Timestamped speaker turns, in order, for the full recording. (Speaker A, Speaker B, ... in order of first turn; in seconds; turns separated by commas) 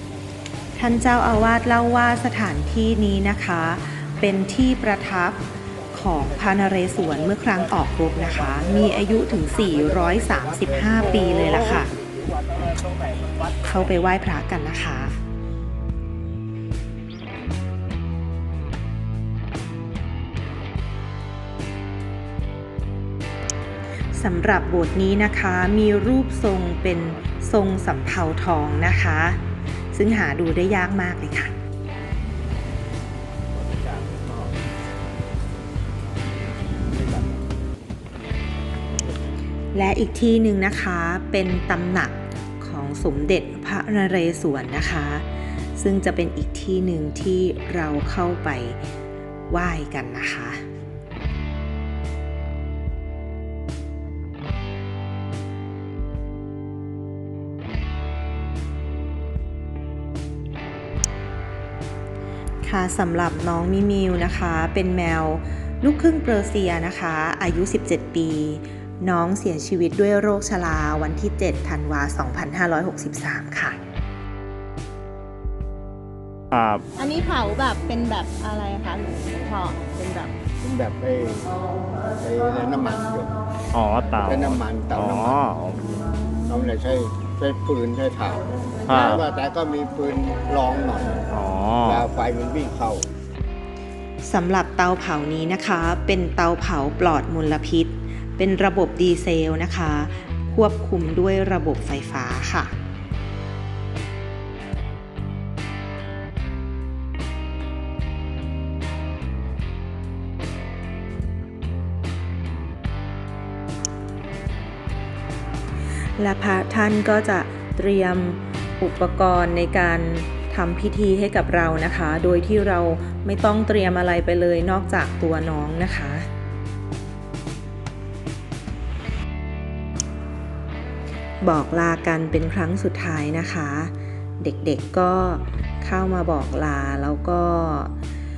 Speaker A: 0.8-11.9, Speaker B: 8.6-13.5, Speaker A: 13.6-15.2, Speaker A: 24.1-29.4, Speaker A: 29.9-31.6, Speaker B: 33.5-34.5, Speaker B: 36.9-37.4, Speaker A: 39.7-48.8, Speaker A: 49.5-50.6, Speaker A: 62.6-73.8, Speaker C: 76.5-76.8, Speaker D: 77.0-80.3, Speaker B: 80.6-81.5, Speaker B: 82.2-83.4, Speaker C: 83.7-85.9, Speaker B: 84.2-85.4, Speaker B: 86.5-91.3, Speaker C: 88.9-89.2, Speaker C: 91.3-92.1, Speaker B: 91.8-93.1, Speaker A: 94.2-102.7, Speaker A: 116.2-126.3, Speaker A: 131.4-137.9